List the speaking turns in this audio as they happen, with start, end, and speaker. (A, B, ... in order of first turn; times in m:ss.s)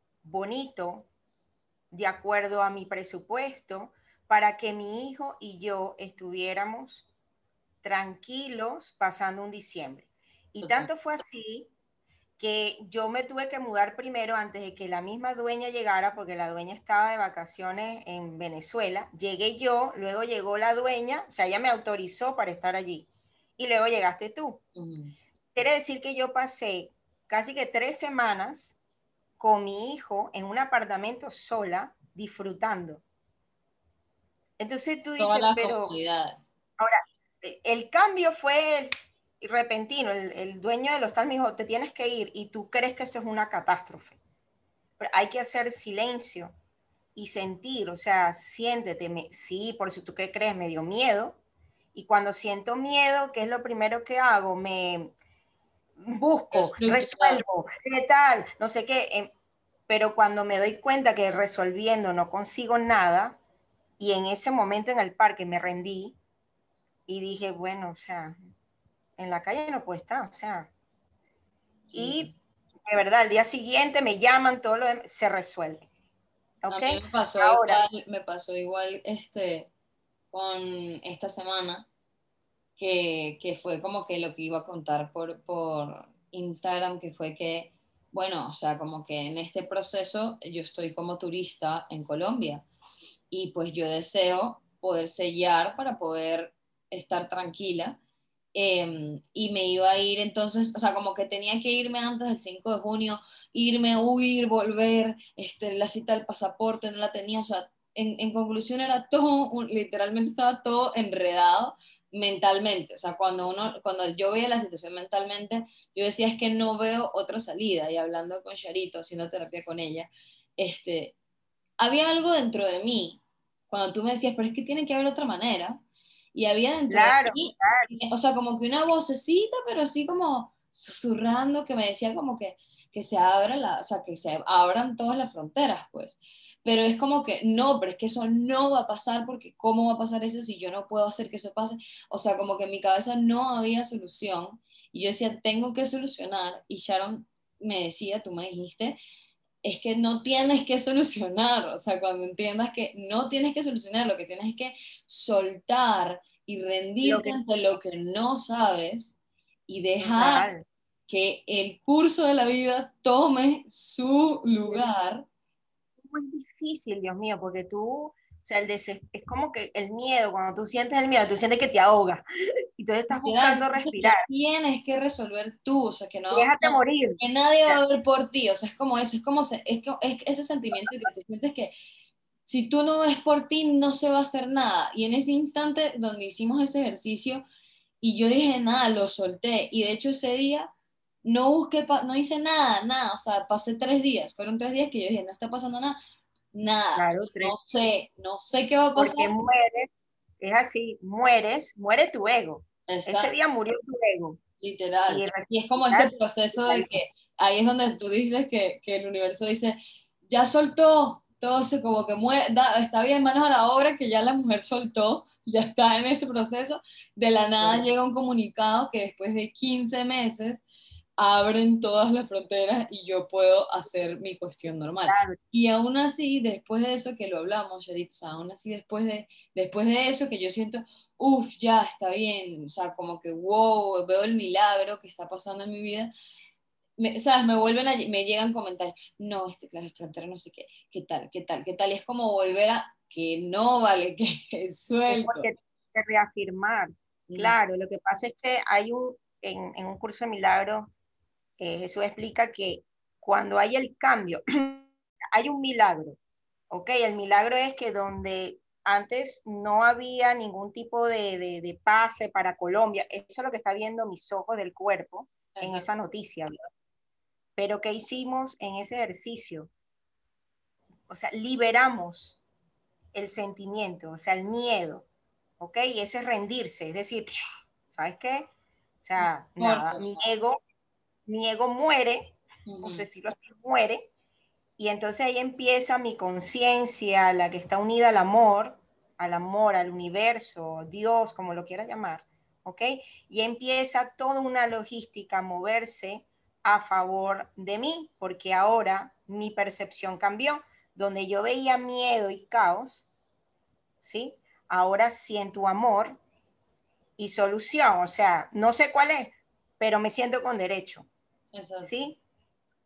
0:00.2-0:01.1 A
0:01.9-0:07.0 A
0:07.8-0:11.7 A
0:10.6-0:10.9 B
0:12.4-0:24.6 A
0:24.7-0:25.1 B
0:25.5-0:28.8 A
0:29.4-0:33.0 A
0:34.6-0:36.0 A
0:35.2-0:36.4 B
0:36.8-0:44.2 A
0:45.0-0:46.5 A
0:47.1-0:51.4 A
0:51.9-0:55.1 A
0:56.0-0:59.3 A
0:56.5-0:57.4 B
0:59.9-1:03.4 A
1:04.0-1:06.2 A
1:07.1-1:08.4 A
1:09.2-1:10.7 A
1:11.9-1:12.4 B
1:11.9-1:12.3 A
1:12.9-1:15.9 A
1:16.6-1:17.8 A
1:16.7-1:19.7 B
1:20.3-1:21.9 B
1:22.8-1:32.6 B
1:33.3-1:38.0 B
1:38.5-2:01.2 B
2:01.8-2:05.8 B
2:06.3-2:29.0 B
2:06.9-2:07.9 A
2:29.6-2:40.5 B
2:37.0-2:37.8 A
2:40.0-2:40.6 A
2:41.1-2:45.3 B
2:46.0-2:52.2 A
2:52.8-2:54.2 A
2:53.1-3:01.7 B
2:56.3-2:57.8 A
3:02.4-3:07.4 B
3:08.0-3:10.7 B
3:11.2-3:16.0 B
3:16.5-3:19.3 B
3:17.0-3:17.5 A
3:19.0-3:24.4 A
3:22.9-3:23.3 B
3:24.6-3:40.7 B
3:25.1-3:27.0 A
3:37.6-3:37.9 A
3:41.2-3:56.1 B
3:45.1-3:45.4 A
3:57.0-4:05.5 B
4:05.1-4:10.9 A
4:07.3-4:07.6 B
4:11.6-4:16.2 A
4:16.7-4:26.6 A
4:25.5-4:25.9 B
4:27.6-4:29.7 A
4:31.1-4:32.4 A
4:33.1-4:35.0 A
4:35.6-4:37.3 A
4:37.9-4:38.5 A
4:39.0-4:40.6 A
4:39.2-4:40.3 B
4:41.2-4:44.1 A
4:42.6-4:43.1 B
4:44.8-5:03.0 A
5:04.0-5:06.2 A
5:07.2-5:11.1 A
5:11.5-5:11.9 B
5:11.8-5:12.2 A